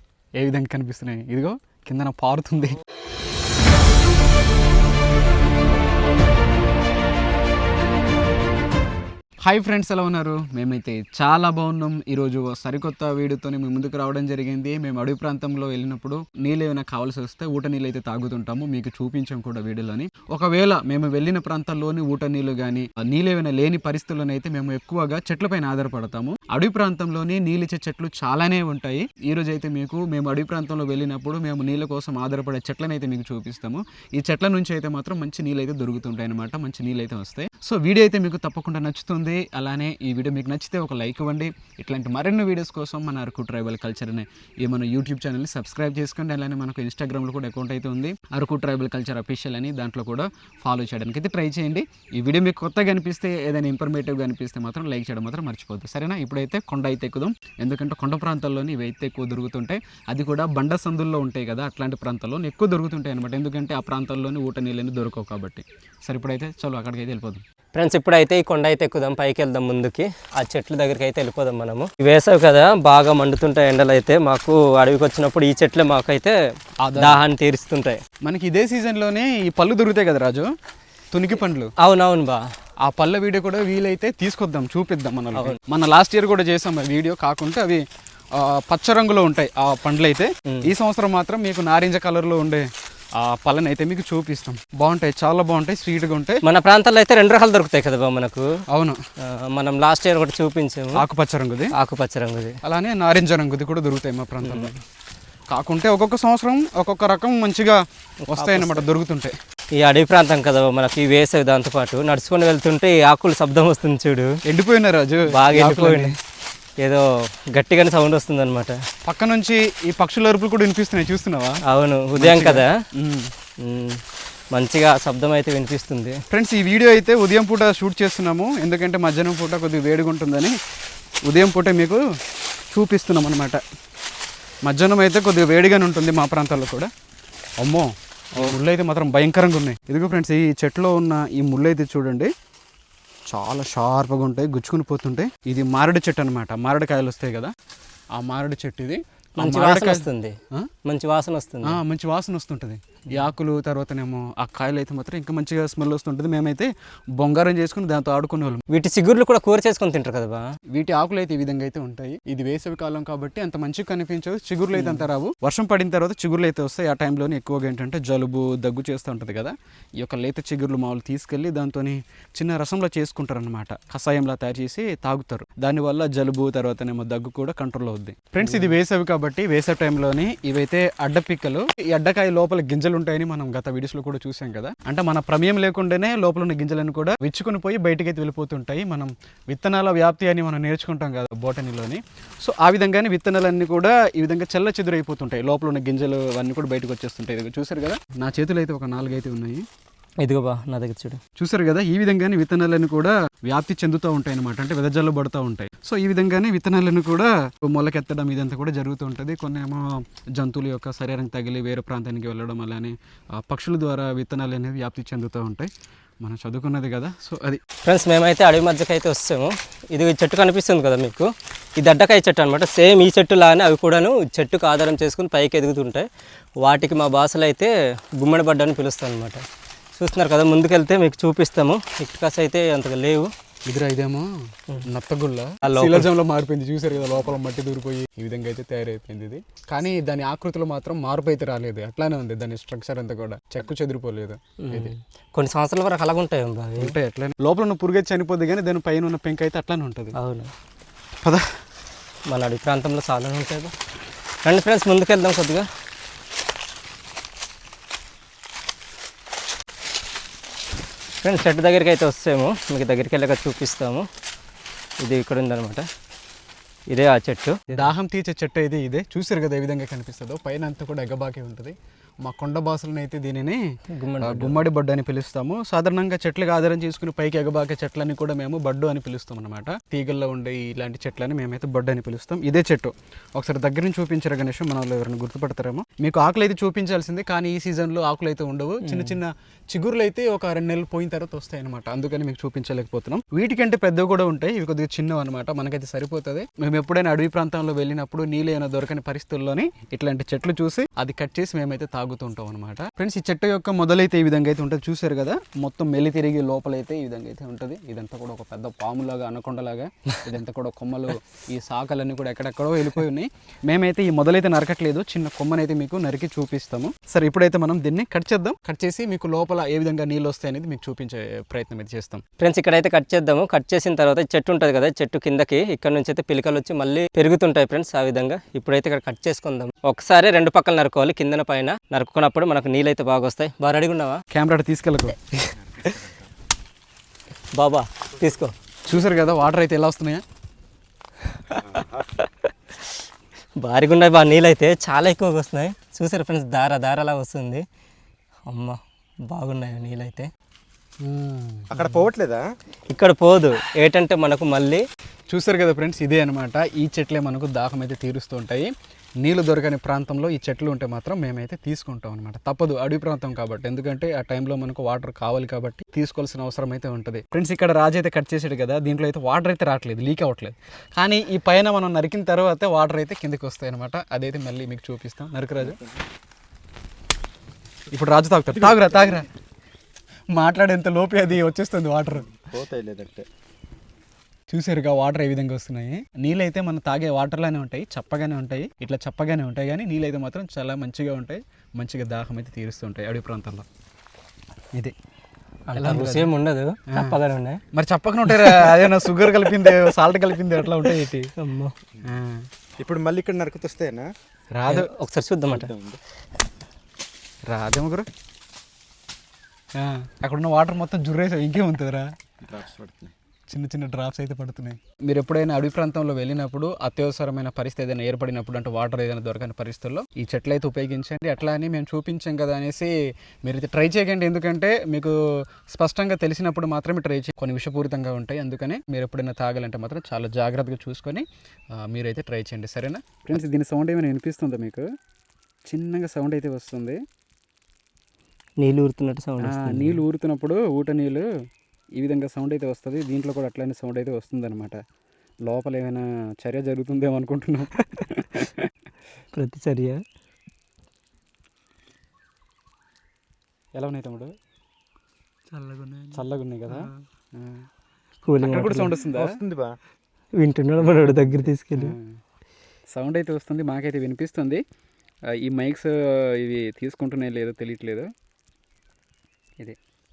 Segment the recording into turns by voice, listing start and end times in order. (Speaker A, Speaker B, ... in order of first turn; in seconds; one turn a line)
Speaker A: 0.4-2.8
Speaker A: 9.4-67.4
Speaker B: 67.8-76.3
Speaker A: 76.8-77.2
Speaker B: 77.0-78.0
Speaker A: 78.2-80.5
Speaker A: 81.1-81.7
Speaker B: 81.8-82.4
Speaker A: 82.8-87.8
Speaker A: 88.4-96.4
Speaker B: 96.5-98.5
Speaker A: 98.7-99.0
Speaker B: 99.3-100.9
Speaker A: 101.0-101.7
Speaker B: 101.8-102.6
Speaker A: 102.6-104.7
Speaker B: 104.4-104.7
Speaker A: 105.5-109.3
Speaker B: 108.3-108.9
Speaker B: 109.8-114.3
Speaker A: 114.5-116.2
Speaker B: 115.3-116.1
Speaker B: 116.8-118.8
Speaker A: 119.1-121.6
Speaker B: 121.7-122.7
Speaker A: 122.2-123.3
Speaker B: 123.6-124.0
Speaker B: 124.5-126.2
Speaker A: 126.3-130.5
Speaker A: 131.3-132.0
Speaker A: 132.7-133.6
Speaker A: 134.7-136.9
Speaker A: 137.6-142.3
Speaker A: 143.3-147.5
Speaker A: 148.2-150.7
Speaker B: 149.4-151.8
Speaker A: 151.6-158.6
Speaker B: 158.7-160.4
Speaker A: 160.7-199.6
Speaker B: 164.8-165.1
Speaker B: 178.4-178.7
Speaker B: 200.2-201.2
Speaker A: 201.4-215.7
Speaker A: 216.2-217.6
Speaker B: 217.8-226.1
Speaker B: 226.6-229.4
Speaker B: 230.0-233.3
Speaker A: 233.7-234.3
Speaker A: 234.8-244.9
Speaker B: 235.7-236.1
Speaker B: 244.6-246.9
Speaker A: 246.8-250.2
Speaker B: 250.2-250.5
Speaker A: 251.2-251.6
Speaker B: 252.3-253.7
Speaker B: 254.4-255.7
Speaker B: 261.2-264.1
Speaker B: 265.0-265.9
Speaker B: 266.9-267.9
Speaker A: 267.7-273.6
Speaker B: 273.9-274.6
Speaker A: 274.2-322.2
Speaker B: 288.8-289.2
Speaker B: 322.4-334.2
Speaker A: 334.3-335.5
Speaker B: 337.6-338.5
Speaker A: 338.9-340.2
Speaker B: 341.3-341.6
Speaker C: 341.6-342.1
Speaker B: 343.6-347.6
Speaker B: 348.5-350.3
Speaker A: 351.0-352.1
Speaker C: 351.7-352.5
Speaker B: 352.9-354.8
Speaker A: 355.3-358.7
Speaker A: 359.2-375.8
Speaker A: 377.9-379.2
Speaker C: 378.6-379.1
Speaker A: 380.3-382.3
Speaker C: 382.3-383.3
Speaker A: 384.5-393.7
Speaker B: 395.7-397.6
Speaker A: 395.8-396.3
Speaker A: 396.9-397.2
Speaker A: 397.7-401.3
Speaker B: 398.3-399.9
Speaker B: 400.8-401.8
Speaker A: 402.0-402.5
Speaker C: 402.8-404.1
Speaker A: 404.5-404.9
Speaker B: 404.7-405.7
Speaker C: 405.5-406.0
Speaker A: 407.5-408.1
Speaker A: 409.8-412.1
Speaker C: 412.4-413.1
Speaker A: 413.5-422.9
Speaker A: 423.4-434.9
Speaker A: 435.7-437.0
Speaker B: 438.6-440.0
Speaker A: 439.4-441.2
Speaker A: 442.0-444.8
Speaker A: 445.4-448.7
Speaker B: 449.3-450.0
Speaker A: 453.8-454.3
Speaker B: 455.5-457.0
Speaker A: 456.1-457.7
Speaker B: 458.2-458.9
Speaker A: 458.4-459.4
Speaker C: 459.1-459.8
Speaker B: 460.4-461.9
Speaker A: 461.7-462.2
Speaker A: 462.9-464.6
Speaker A: 465.3-468.1